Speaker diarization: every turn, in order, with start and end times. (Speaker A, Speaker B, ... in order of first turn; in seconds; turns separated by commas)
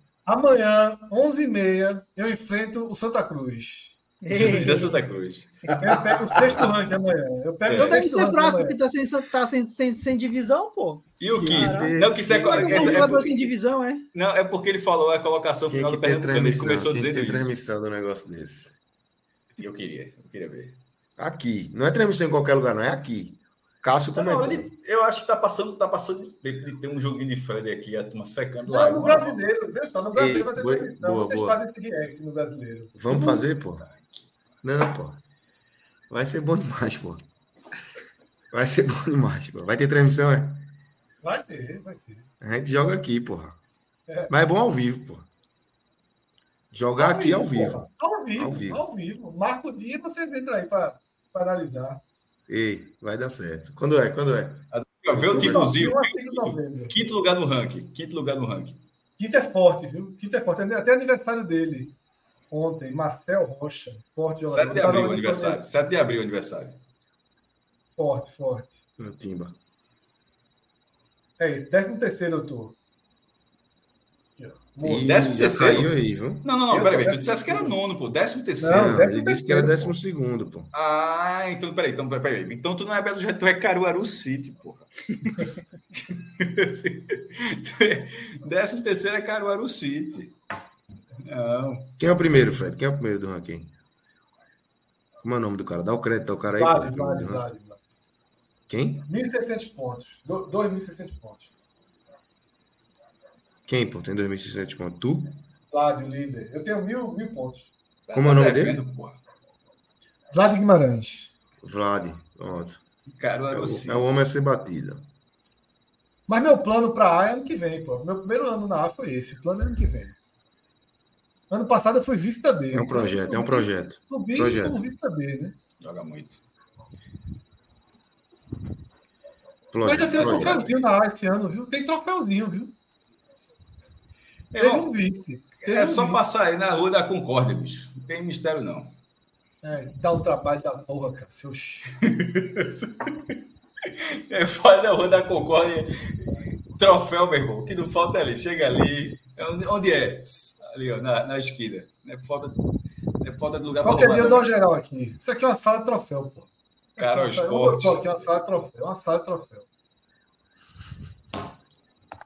Speaker A: 0.3-4.0, Speaker B: 4.2-5.0, Speaker C: 4.3-5.8, Speaker A: 5.8-8.8, Speaker C: 7.7-8.0, Speaker B: 7.8-14.0, Speaker C: 11.2-13.5, Speaker D: 11.3-13.3, Speaker C: 14.1-17.5, Speaker D: 15.7-18.8, Speaker C: 19.6-20.8, Speaker D: 21.2-24.7, Speaker C: 24.1-29.4, Speaker A: 28.7-33.4, Speaker D: 30.1-31.6, Speaker D: 33.0-33.8, Speaker C: 33.8-34.3, Speaker D: 34.6-35.2, Speaker D: 36.1-37.2, Speaker D: 38.5-40.7, Speaker A: 41.2-42.3, Speaker D: 42.4-43.6, Speaker D: 44.3-45.3, Speaker D: 46.7-47.9, Speaker A: 47.0-52.0, Speaker D: 48.4-48.8, Speaker D: 52.5-55.7, Speaker C: 54.7-58.8, Speaker A: 55.3-57.0, Speaker A: 59.2-62.0, Speaker A: 62.5-65.6, Speaker C: 64.4-66.8, Speaker A: 68.0-68.8, Speaker D: 69.0-69.5, Speaker A: 71.4-72.8, Speaker A: 74.4-75.1, Speaker D: 74.8-76.5, Speaker C: 75.0-75.9, Speaker C: 76.4-79.0, Speaker A: 76.7-77.8, Speaker A: 78.6-80.0, Speaker D: 78.7-80.7, Speaker C: 80.7-90.3, Speaker C: 91.2-91.9, Speaker D: 92.0-93.7, Speaker D: 95.2-97.5, Speaker A: 96.5-97.8, Speaker D: 98.7-99.1, Speaker A: 99.1-101.5, Speaker D: 103.7-105.4, Speaker A: 105.7-107.7, Speaker C: 108.1-109.2, Speaker D: 108.1-108.8, Speaker A: 110.3-111.3, Speaker D: 111.6-112.8, Speaker C: 113.2-114.2, Speaker D: 113.5-115.1, Speaker A: 116.3-120.2, Speaker A: 121.5-125.6, Speaker D: 122.7-124.8, Speaker C: 125.8-126.4, Speaker D: 129.7-130.7, Speaker A: 129.8-132.7, Speaker C: 130.2-130.5, Speaker C: 134.5-134.9, Speaker A: 134.6-136.2, Speaker C: 135.6-138.9, Speaker A: 139.6-141.9, Speaker C: 142.0-143.3, Speaker C: 144.3-152.6, Speaker C: 153.2-154.5, Speaker A: 153.8-159.7, Speaker C: 157.0-158.1